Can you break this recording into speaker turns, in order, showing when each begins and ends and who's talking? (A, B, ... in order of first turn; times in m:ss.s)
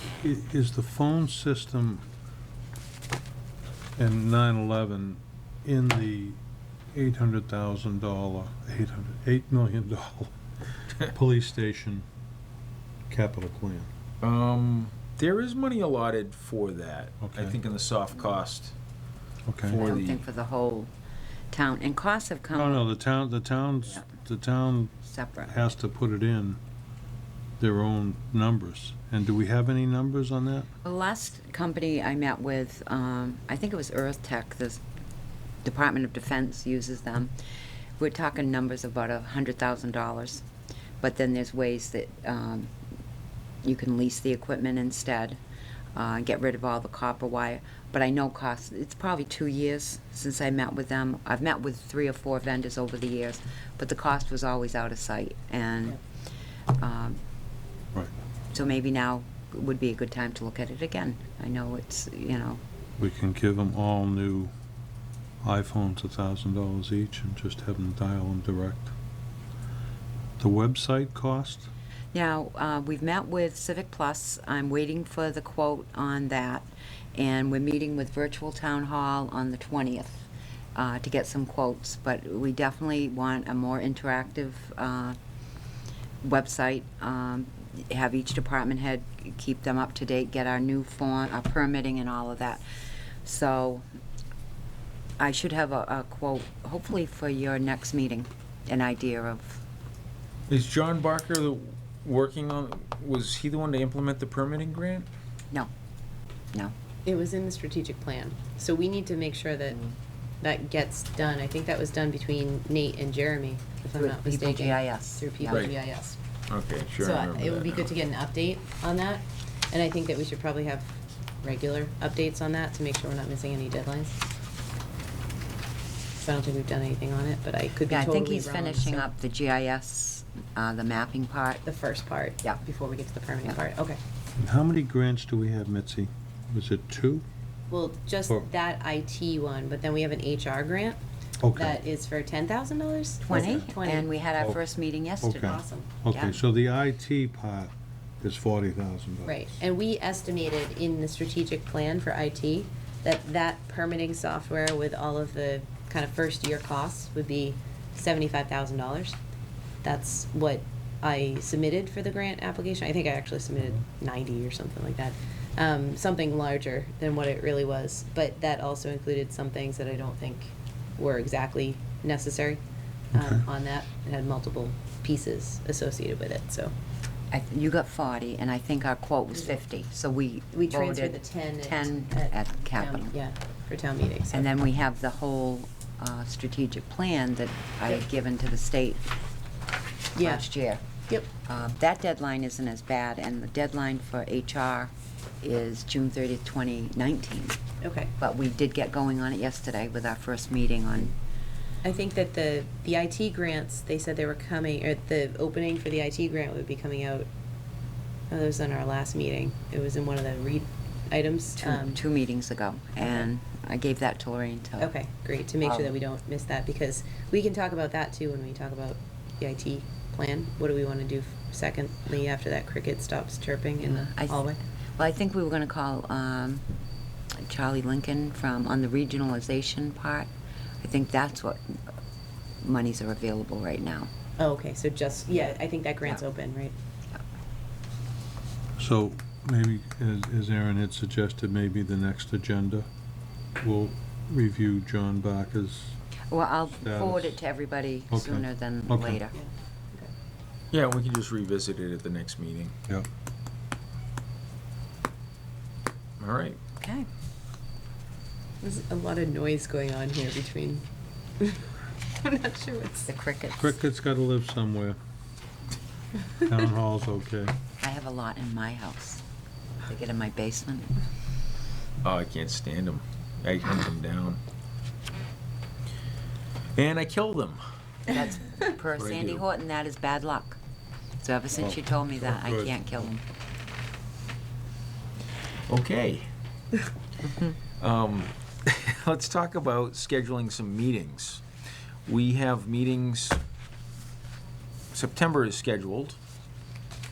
0:00.2-0:02.0 A
0:04.0-0:06.4 A
0:06.9-0:10.3 A
0:11.0-0:12.0 A
0:13.1-0:13.9 A
0:14.2-0:18.7 B
0:17.2-0:17.6 A
0:19.4-0:19.8 A
0:19.6-0:20.2 B
0:19.7-0:20.9 C
0:21.5-0:22.8 C
0:22.5-0:24.9 A
0:25.0-0:25.7 C
0:25.5-0:26.6 A
0:27.6-0:30.7 A
0:30.8-0:34.8 C
0:35.6-0:37.3 C
0:38.0-0:40.4 C
0:41.0-0:42.7 C
0:43.6-0:45.4 C
0:45.9-0:56.0 C
0:56.8-0:57.2 C
0:58.5-1:02.6 C
1:03.0-1:04.5 A
1:05.4-1:08.9 A
1:10.4-1:11.7 A
1:12.1-1:25.2 C
1:26.2-1:32.6 C
1:33.2-1:33.8 C
1:35.2-1:39.6 C
1:40.5-1:45.1 B
1:47.0-1:49.8 D
1:50.4-1:56.2 D
1:54.0-1:55.7 C
1:55.5-1:55.8 B
1:56.5-1:57.9 B
1:57.0-2:04.2 D
2:06.2-2:09.1 D
2:07.8-2:11.6 C
2:11.6-2:14.0 D
2:14.4-2:17.2 A
2:17.7-2:21.0 D
2:21.4-2:21.8 A
2:21.5-2:24.0 D
2:23.2-2:25.6 C
2:23.3-2:23.7 A
2:24.4-2:24.6 A
2:25.2-2:29.4 A
2:25.4-2:25.9 D
2:26.1-2:26.4 C
2:29.2-2:39.2 D
2:39.8-2:52.6 D
2:53.1-2:56.7 D
2:53.1-2:53.4 A
2:57.3-3:03.1 C
3:00.5-3:04.5 D
3:04.3-3:09.0 C
3:10.2-3:10.4 D
3:10.2-3:10.8 C
3:11.4-3:17.6 C
3:17.8-3:18.1 D
3:18.2-3:21.1 C
3:21.8-3:27.3 D
3:28.3-3:32.0 D
3:31.6-3:34.9 C
3:33.0-3:33.3 D
3:34.8-3:44.6 D
3:35.6-3:35.9 C
3:43.8-3:46.6 C
3:47.4-3:50.3 C
3:50.8-3:51.8 C
3:52.6-3:54.1 C
3:54.4-3:56.7 D
3:58.8-4:02.9 A
4:03.6-4:06.0 A
4:06.3-4:09.3 C
4:06.7-4:07.4 A
4:08.1-4:09.2 A
4:09.3-4:10.1 D
4:10.7-4:12.7 B
4:16.2-4:16.6 B
4:16.8-4:17.1 C
4:18.6-4:20.8 D
4:21.4-4:21.6 D
4:22.2-4:23.1 D
4:23.1-4:23.7 C
4:23.6-4:25.0 A
4:26.4-4:27.5 A
4:27.8-4:29.2 C
4:29.8-4:31.0 C
4:32.0-4:34.4 B
4:36.8-4:37.6 B
4:38.1-4:40.6 C
4:38.9-4:39.4 B
4:41.2-4:43.2 C
4:41.6-4:43.1 A
4:45.7-4:46.3 B
4:47.8-4:51.4 B
4:52.0-4:53.4 B
4:54.9-4:56.2 B